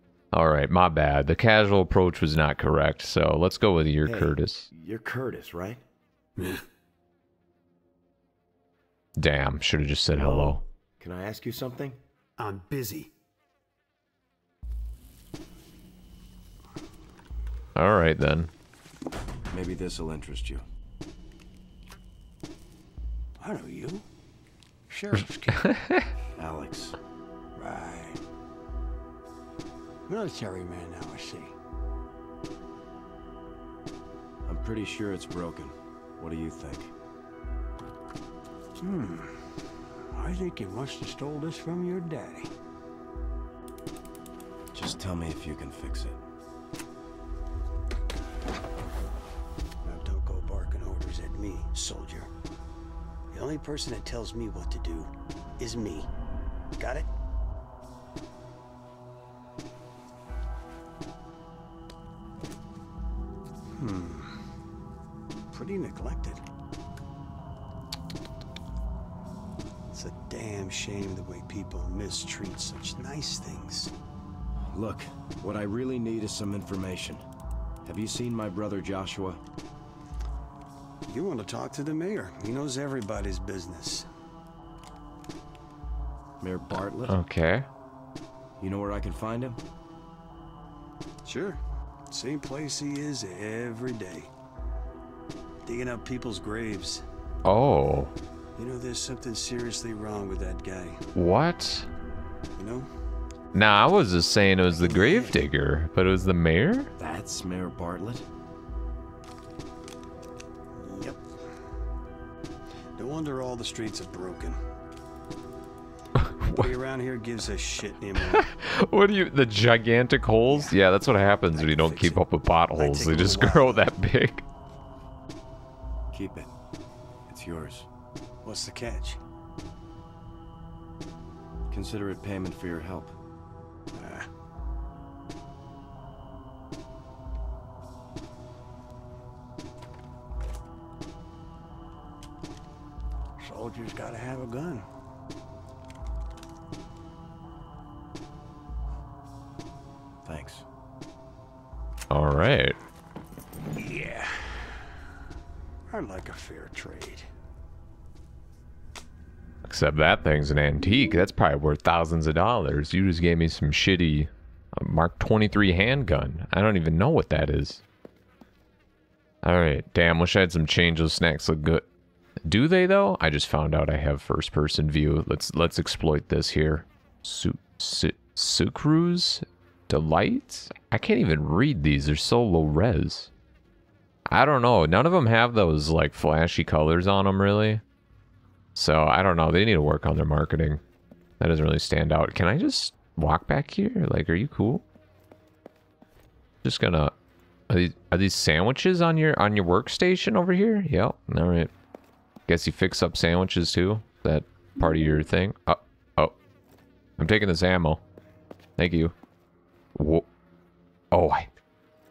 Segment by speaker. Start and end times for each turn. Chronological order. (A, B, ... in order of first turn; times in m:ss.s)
0:00.3-0:04.7 A
0:04.0-0:05.8 B
0:06.4-0:06.6 C
0:09.2-0:10.6 A
0:10.1-0:12.0 B
0:12.4-0:13.1 C
0:17.7-0:18.5 A
0:19.5-0:20.6 B
0:23.4-0:24.0 C
0:24.9-0:25.7 C
0:25.5-0:26.1 A
0:26.4-0:27.0 B
0:27.6-0:28.2 C
0:30.1-0:31.5 C
0:34.4-0:36.9 B
0:38.8-0:39.6 C
0:40.1-0:42.5 C
0:44.7-0:46.2 B
0:49.8-0:52.3 C
0:53.3-0:56.1 C
0:56.8-0:57.1 C
1:03.7-1:04.4 C
1:05.5-1:06.4 C
1:09.9-1:13.9 C
1:14.7-1:17.2 B
1:17.8-1:19.4 B
1:21.1-1:24.1 C
1:26.4-1:27.2 B
1:26.7-1:27.7 A
1:28.6-1:29.6 B
1:31.2-1:34.3 C
1:35.6-1:37.0 C
1:37.4-1:38.1 A
1:38.6-1:41.0 C
1:41.1-1:41.9 A
1:42.6-1:42.9 C
1:43.5-1:46.9 A
1:44.8-1:45.4 C
1:47.0-1:48.2 B
1:50.7-1:51.2 C
1:53.0-1:54.6 C
1:56.2-1:56.7 A
1:56.5-1:58.5 C
1:58.3-2:04.4 A
2:00.5-2:00.8 C
2:01.5-2:02.2 C
2:02.8-2:03.8 C
2:06.1-2:06.5 B
2:07.3-2:07.9 B
2:08.4-2:09.2 C
2:11.7-2:13.2 B
2:13.9-2:14.3 C
2:23.4-2:24.8 C
2:30.2-2:30.6 B
2:32.1-2:32.8 A
2:33.8-2:34.8 C
2:35.9-2:37.3 C
2:39.6-2:47.8 A
2:49.4-2:51.8 A
2:52.4-3:03.3 A
3:04.3-3:07.8 A
3:08.7-3:10.8 A
3:11.4-3:14.8 A
3:16.6-3:17.1 A
3:17.7-3:21.7 A
3:22.5-3:26.3 A
3:27.2-3:28.0 A
3:28.8-3:29.1 A
3:29.9-3:30.3 A
3:31.1-3:31.6 A